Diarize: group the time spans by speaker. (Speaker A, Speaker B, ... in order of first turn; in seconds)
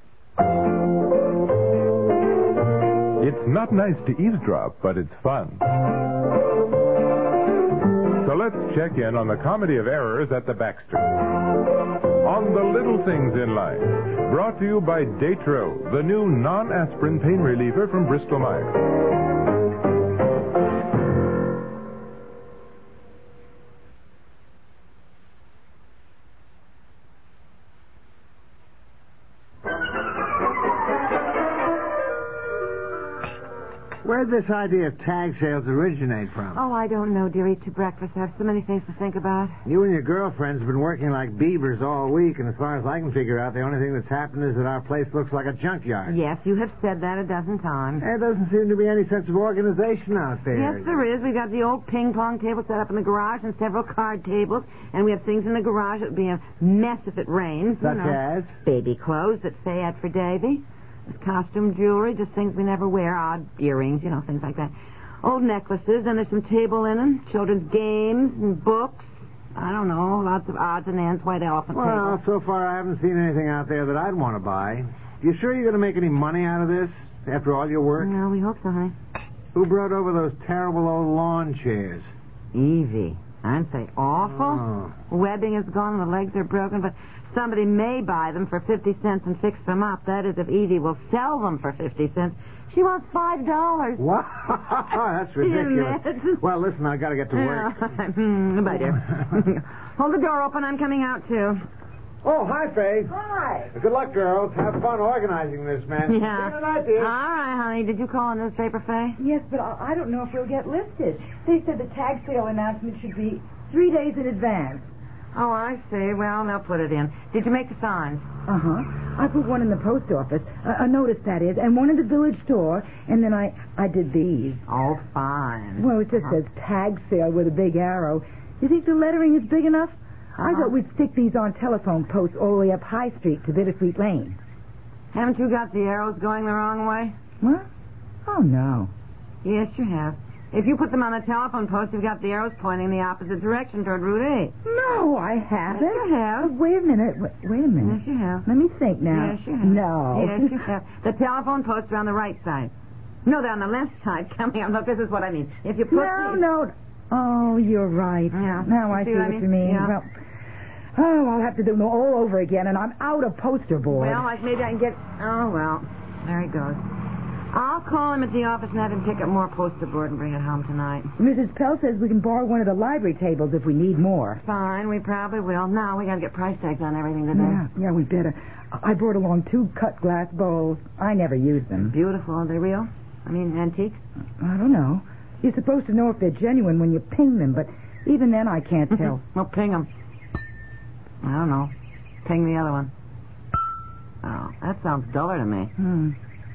Speaker A: 3.2-5.6, 8.2-11.1, 12.2-18.8
Speaker B: 34.0-36.6, 39.6-46.2, 48.0-51.0, 57.8-58.5, 71.7-78.1, 79.5-82.1, 84.6-84.9, 94.0-97.7, 102.2-103.1, 103.7-107.1
Speaker C: 36.5-39.6, 46.0-48.0, 50.5-72.2, 78.0-78.9, 82.5-94.0, 95.4-96.4, 97.3-101.6, 106.0-109.2, 115.3-118.2, 124.7-125.9, 130.4-130.7, 135.1-137.1, 139.4-144.5, 145.7-146.5, 147.8-148.4, 149.1-152.7, 153.2-156.4, 158.3-159.9, 163.9-166.8, 167.5-171.1, 174.4-177.6, 181.9-184.0, 188.9-189.9, 191.2-191.7, 192.2-192.9, 194.2-195.7
Speaker D: 103.1-103.7, 109.2-114.9, 118.5-124.6, 125.8-134.4, 137.4-137.7, 138.2-138.9, 144.6-150.7, 155.9-160.1, 160.9-164.3, 171.2-174.4, 177.3-181.9, 184.4-189.2, 195.8-196.2